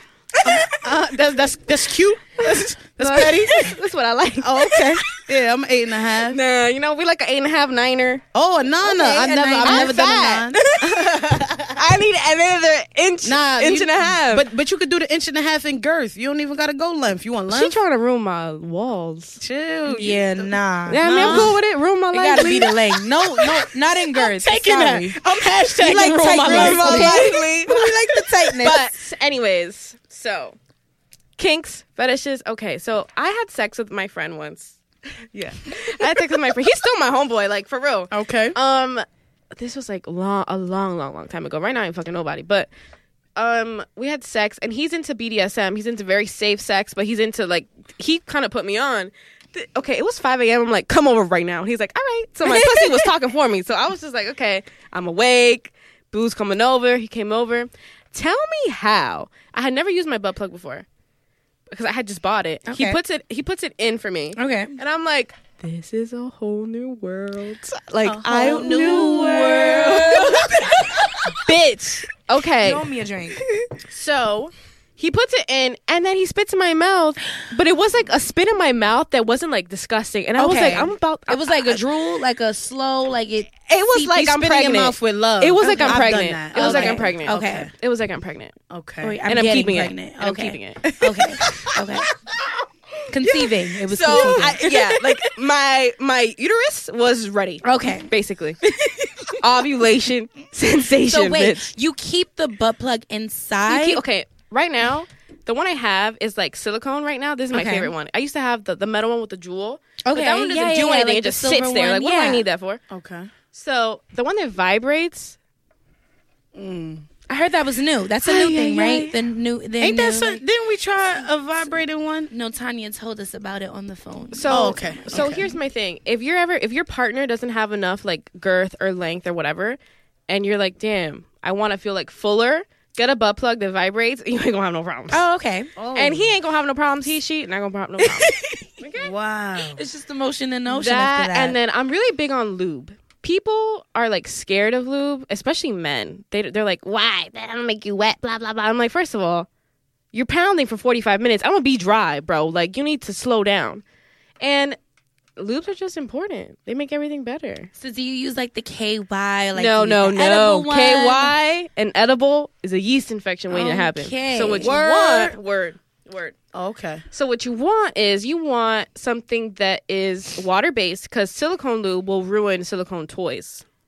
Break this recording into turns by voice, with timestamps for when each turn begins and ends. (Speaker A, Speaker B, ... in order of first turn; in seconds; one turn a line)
Speaker A: 0.4-3.7
Speaker B: 3.0-5.1
Speaker A: 4.4-6.4
Speaker B: 6.2-8.2
Speaker A: 8.3-11.8
Speaker C: 8.8-10.0
Speaker B: 9.2-14.4
Speaker A: 13.2-17.8
Speaker B: 17.5-19.4
Speaker A: 19.4-21.6
Speaker C: 19.9-21.6
Speaker B: 20.9-22.8
Speaker C: 22.1-28.8
Speaker A: 24.1-27.9
Speaker B: 25.9-27.9
Speaker B: 28.6-30.6
Speaker B: 31.4-34.8
Speaker B: 35.3-42.7
Speaker A: 38.1-38.5
Speaker B: 43.4-60.9
Speaker C: 52.4-53.1
Speaker B: 61.7-72.8
Speaker C: 62.7-63.0
Speaker C: 64.3-64.8
Speaker A: 68.0-70.7
Speaker C: 68.2-71.4
Speaker C: 72.6-73.4
Speaker B: 73.7-81.8
Speaker C: 80.4-84.3
Speaker B: 83.7-88.5
Speaker A: 84.1-87.7
Speaker C: 85.6-87.7
Speaker A: 88.7-89.2
Speaker C: 89.0-92.1
Speaker B: 89.2-90.8
Speaker A: 90.8-91.8
Speaker C: 93.1-95.1
Speaker B: 93.8-98.6
Speaker A: 94.2-94.6
Speaker C: 97.6-98.1
Speaker C: 98.6-99.4
Speaker B: 99.4-101.7
Speaker C: 101.0-104.0
Speaker B: 103.7-112.8
Speaker C: 107.5-107.9
Speaker C: 110.0-112.5
Speaker A: 112.9-113.3
Speaker B: 113.5-115.4
Speaker A: 116.5-117.0
Speaker C: 117.3-120.4
Speaker B: 118.2-119.2
Speaker A: 119.8-122.3
Speaker C: 122.3-125.6
Speaker B: 124.3-135.2
Speaker A: 124.5-125.4
Speaker C: 135.1-135.7
Speaker A: 135.8-136.3
Speaker B: 135.9-139.1
Speaker C: 138.0-138.7
Speaker A: 139.0-139.8
Speaker C: 139.7-141.6
Speaker B: 140.7-149.5
Speaker B: 150.1-153.8
Speaker B: 154.4-154.8
Speaker B: 155.4-157.7
Speaker C: 157.8-161.3
Speaker B: 159.5-166.3
Speaker C: 163.5-164.7
Speaker A: 164.6-165.3
Speaker A: 166.5-167.0
Speaker B: 167.1-173.6